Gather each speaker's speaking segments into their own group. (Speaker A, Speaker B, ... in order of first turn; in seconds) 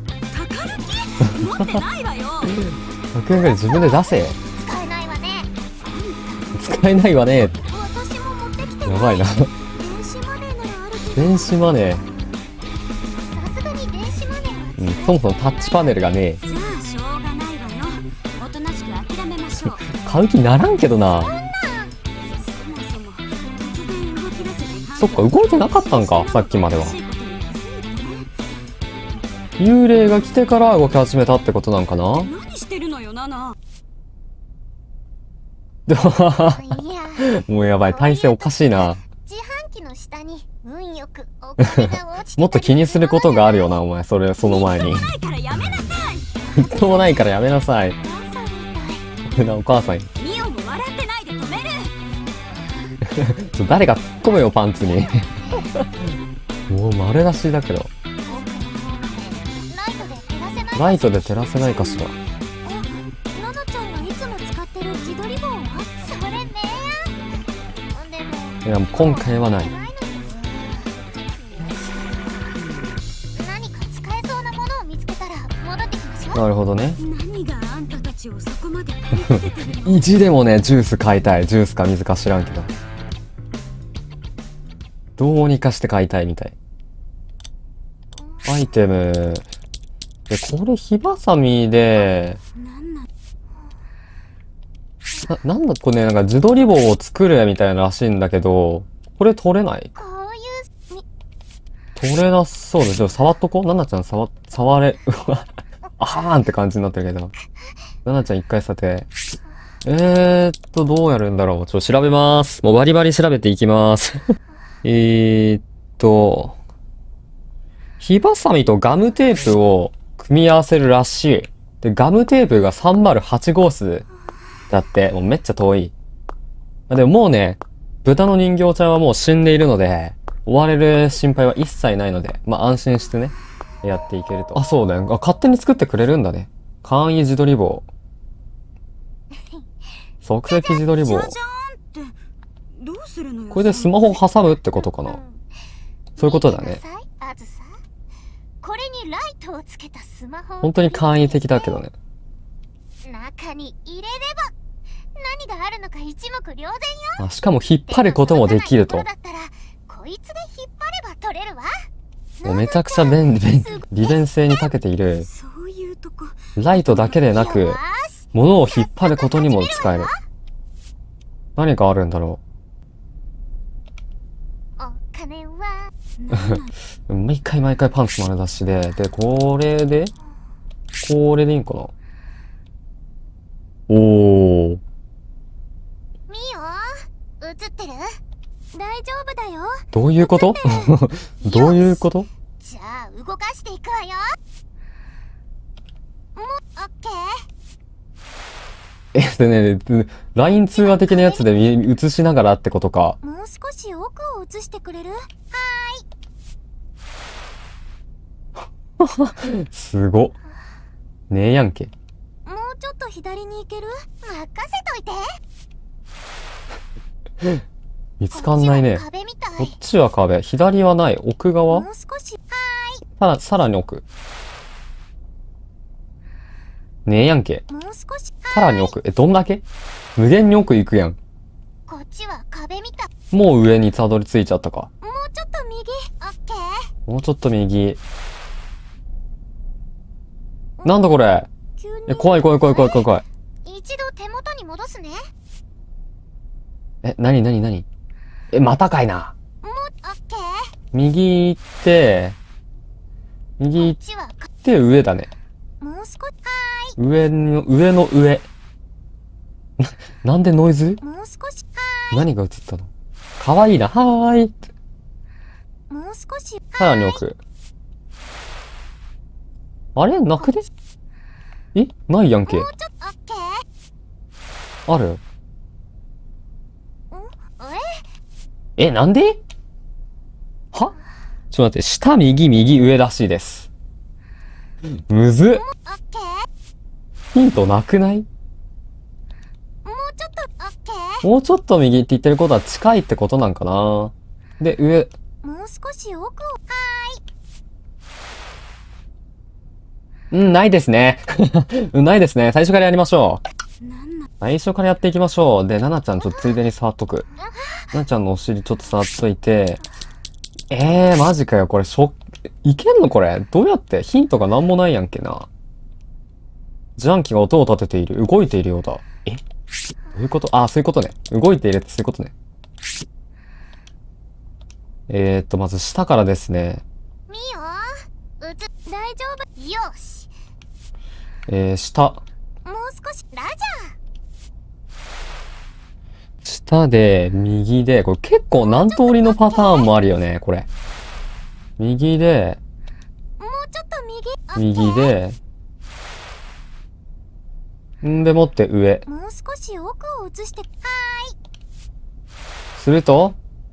Speaker A: 0.3-2.6, 5.8-6.6, 9.7-11.8, 16.4-19.9, 22.4-28.3, 32.2-33.5, 44.4-46.3, 50.1-51.9, 77.0-80.2, 92.5-93.1, 140.5-142.2, 142.7-144.2, 165.2-167.0, 176.2-176.7, 204.7-205.2, 303.8-304.3
Speaker B: 1.3-1.8, 2.6-4.4, 6.5-7.6, 8.8-9.5, 11.1-12.0, 14.8-16.4, 19.6-21.4, 25.0-27.0, 29.6-32.3, 35.9-39.0, 41.6-45.1, 46.5-48.0, 49.3-50.1, 53.0-56.1, 56.7-57.9, 60.7-62.1, 68.6-69.7, 76.3-77.0, 79.2-82.7, 85.2-86.5, 88.4-89.5, 90.3-92.4, 95.3-99.9, 102.0-107.3, 108.0-109.1, 109.8-116.6, 118.0-124.0, 124.7-125.9, 126.9-137.8, 140.2-141.3, 143.5-145.2, 146.2-146.8, 150.6-151.9, 157.2-159.1, 162.4-165.2, 166.6-167.8, 168.3-170.1, 171.6-172.4, 176.3-180.1, 181.0-181.9, 183.9-184.8, 189.9-192.3, 199.1-203.2, 209.0-210.3, 211.3-211.9, 218.2-219.0, 219.6-221.9, 223.2-224.0, 227.1-227.6, 228.5-229.6, 230.2-231.2, 233.3-234.9, 237.1-238.0, 240.8-241.5, 242.1-243.2, 247.0-247.8, 248.5-249.3, 250.9-252.4, 253.6-254.0, 254.6-255.3, 257.0-258.5, 259.8-261.0, 262.1-264.6, 266.8-267.4, 269.9-270.6, 271.7-272.7, 274.9-275.2, 278.8-279.4, 281.5-283.7, 285.1-285.6, 287.3-288.3, 291.2-295.1, 300.3-303.4, 304.4-307.3, 307.9-309.8, 310.7-315.5, 317.0-319.4, 320.1-322.3, 325.1-326.8, 331.5-332.2, 336.4-340.7, 341.8-342.6, 344.6-345.4, 348.0-349.0, 352.8-353.4
Speaker C: 3.3-5.5, 7.7-9.3, 11.9-12.4, 13.3-16.2, 21.2-21.9, 36.5-37.3, 37.9-43.8, 46.5-47.2, 48.0-49.1, 52.5-52.9, 54.5-55.7, 58.3-67.2, 67.9-72.2, 73.3-76.4, 88.2-88.7, 100.0-101.0, 139.4-139.6, 144.8-145.4, 146.2-147.8, 148.6-151.8, 153.0-154.5, 155.1-161.8, 162.4-164.7, 167.0-170.1, 174.8-175.9, 186.3-188.2, 188.7-194.4, 196.3-197.5, 200.4-201.5, 203.2-204.7, 205.3-206.0, 212.4-215.4, 218.3-219.8, 221.7-223.0, 227.7-228.9, 231.9-233.1, 235.0-236.9, 240.8-241.1, 241.8-243.1, 243.6-245.3, 249.6-250.7, 253.8-254.5, 255.8-257.0, 261.0-262.2, 265.9-267.2, 272.4-273.6, 277.1-278.0, 285.5-286.5, 289.8-291.2, 295.4-297.2, 306.2-306.6, 307.4-307.9, 327.3-330.3, 332.6-333.9, 338.6-339.9, 343.4-345.1, 349.1-351.4